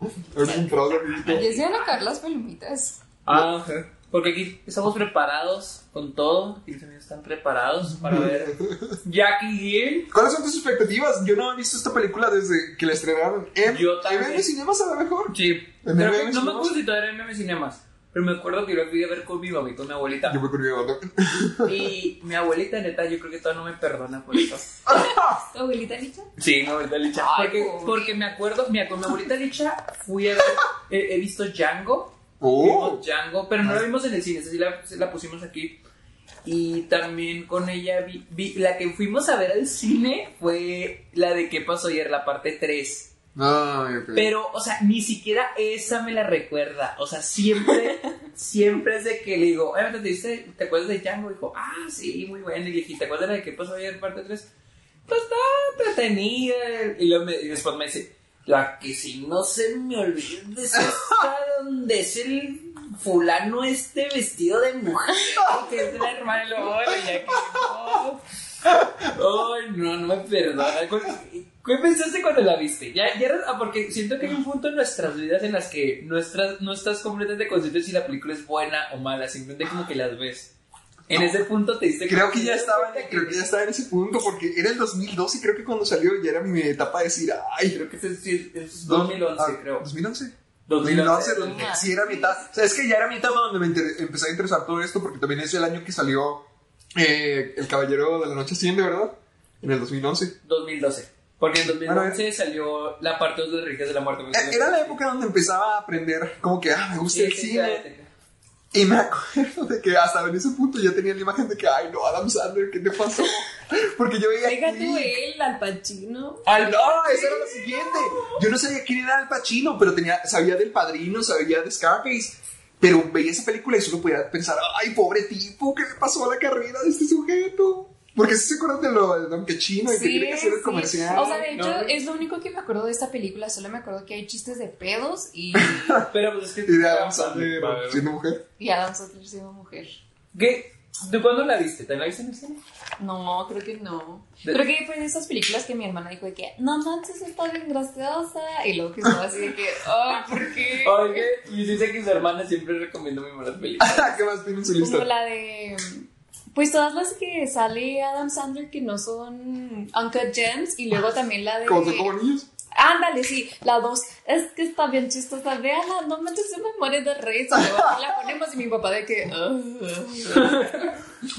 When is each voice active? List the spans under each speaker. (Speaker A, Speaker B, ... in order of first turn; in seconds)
Speaker A: 0.3-1.6, 8.0-9.0, 10.1-16.8, 20.2-21.8, 24.9-25.4, 32.4-33.0, 43.4-44.3, 60.8-61.2, 81.1-81.4, 82.0-87.8, 88.8-100.3, 101.8-102.2, 104.3-107.8, 108.7-115.2, 116.5-131.4, 135.5-136.0, 136.6-138.4, 153.8-155.1, 161.6-162.5
Speaker B: 1.3-3.0, 24.9-26.3, 27.1-28.1, 91.4-92.4, 114.4-116.4, 129.8-136.0, 138.6-140.0, 143.0-151.3, 154.8-162.1, 162.7-170.9
Speaker C: 1.4-1.8, 3.2-10.1, 13.7-14.5, 15.3-20.4, 21.6-24.7, 26.4-35.8, 36.4-43.1, 44.1-54.5, 55.1-68.2, 69.0-80.5, 81.1-83.4, 87.7-89.9, 90.7-91.8, 100.4-105.0, 107.1-108.1, 116.5-117.5, 131.1-132.0, 136.1-138.1, 140.3-142.6, 150.1-154.2, 170.3-171.0